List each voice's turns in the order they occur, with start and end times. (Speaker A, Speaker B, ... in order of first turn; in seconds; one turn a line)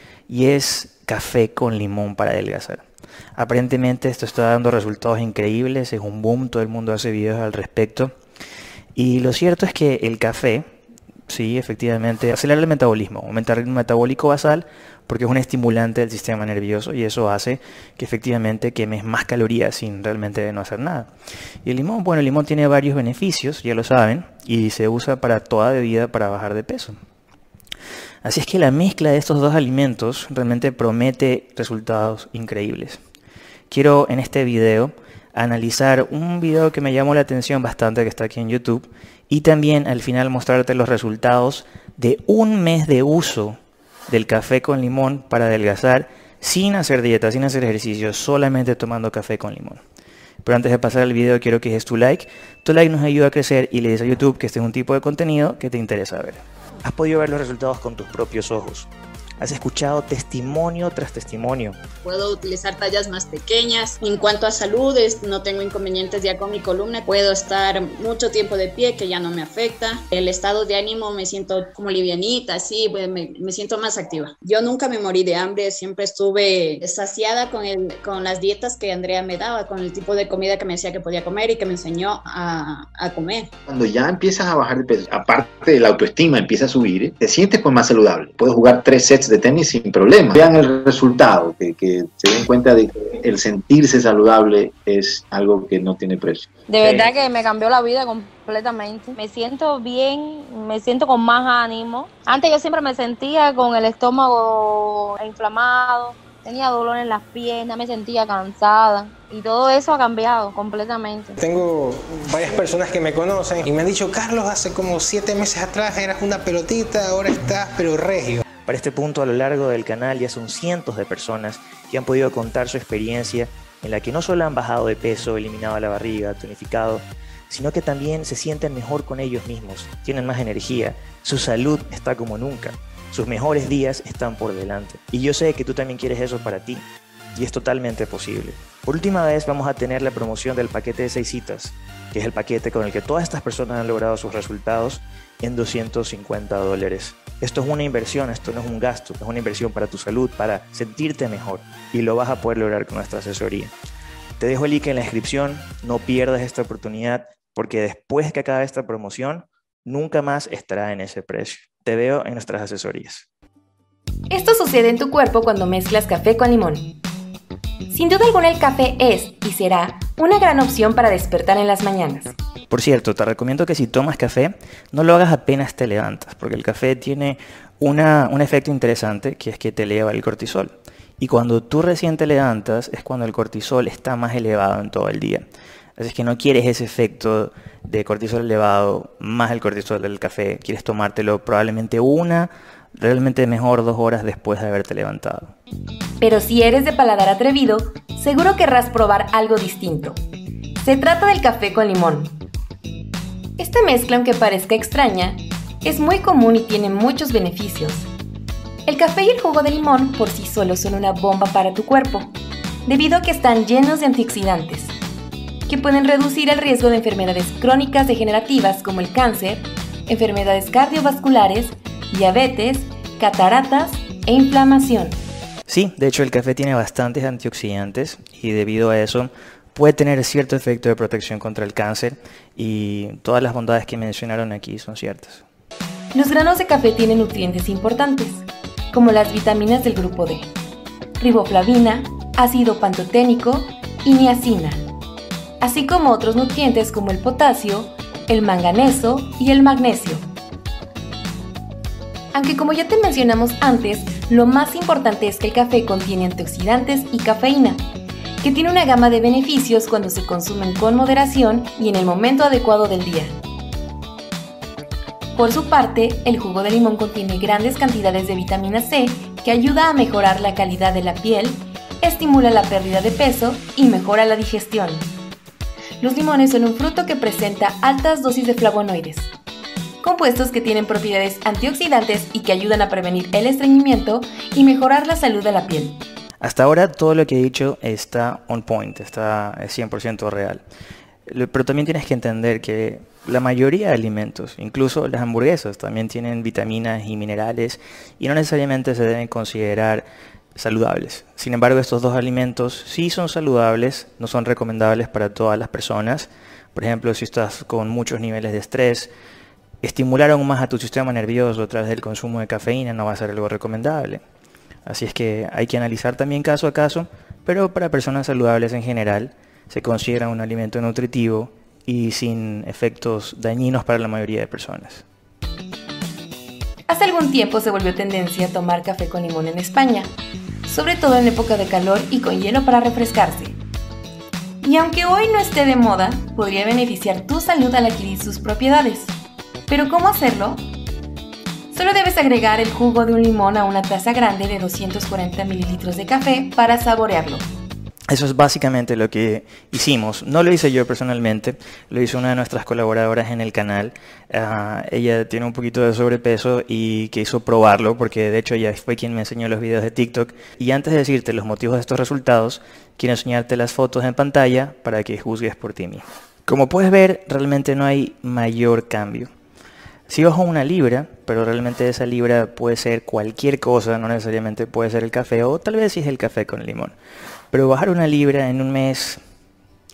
Speaker A: 0.3-2.8
Speaker A: 3.4-8.1
Speaker A: 8.9-10.7
Speaker A: 11.3-21.1
Speaker A: 21.6-26.9
Speaker A: 28.2-33.0
Speaker A: 33.7-43.6
Speaker A: 44.1-49.8
Speaker A: 50.4-58.9
Speaker A: 59.4-61.8
Speaker B: 62.0-83.5
Speaker C: 83.7-97.1
Speaker D: 96.7-111.4
Speaker E: 111.4-118.4
Speaker A: 118.7-153.7
Speaker A: 154.4-163.3
Speaker F: 164.3-166.9
Speaker F: 167.9-172.3
Speaker A: 172.7-185.4
Speaker A: 186.0-195.5
Speaker F: 196.2-200.2
Speaker F: 200.8-202.4
Speaker F: 203.6-208.1
Speaker F: 208.9-212.3
Speaker F: 212.8-214.9
Speaker F: 215.7-225.2
Speaker A: 225.7-235.4
Speaker F: 236.1-240.5
Speaker F: 241.2-244.9
Speaker F: 245.6-250.3
Speaker F: 252.3-257.9
Speaker F: 258.4-263.4
Speaker F: 265.3-275.1
Speaker F: 276.0-279.3
Speaker F: 280.0-286.0
Speaker A: 286.4-290.6
Speaker A: 291.3-309.1
Speaker A: 309.8-314.2
Speaker A: 314.9-325.0
Speaker F: 326.9-330.1
Speaker F: 330.6-333.6
Speaker F: 334.6-339.1
Speaker F: 339.7-340.6
Speaker F: 341.7-347.4
Speaker A: 348.1-369.3
Speaker A: 370.1-376.9
Speaker A: 377.5-379.2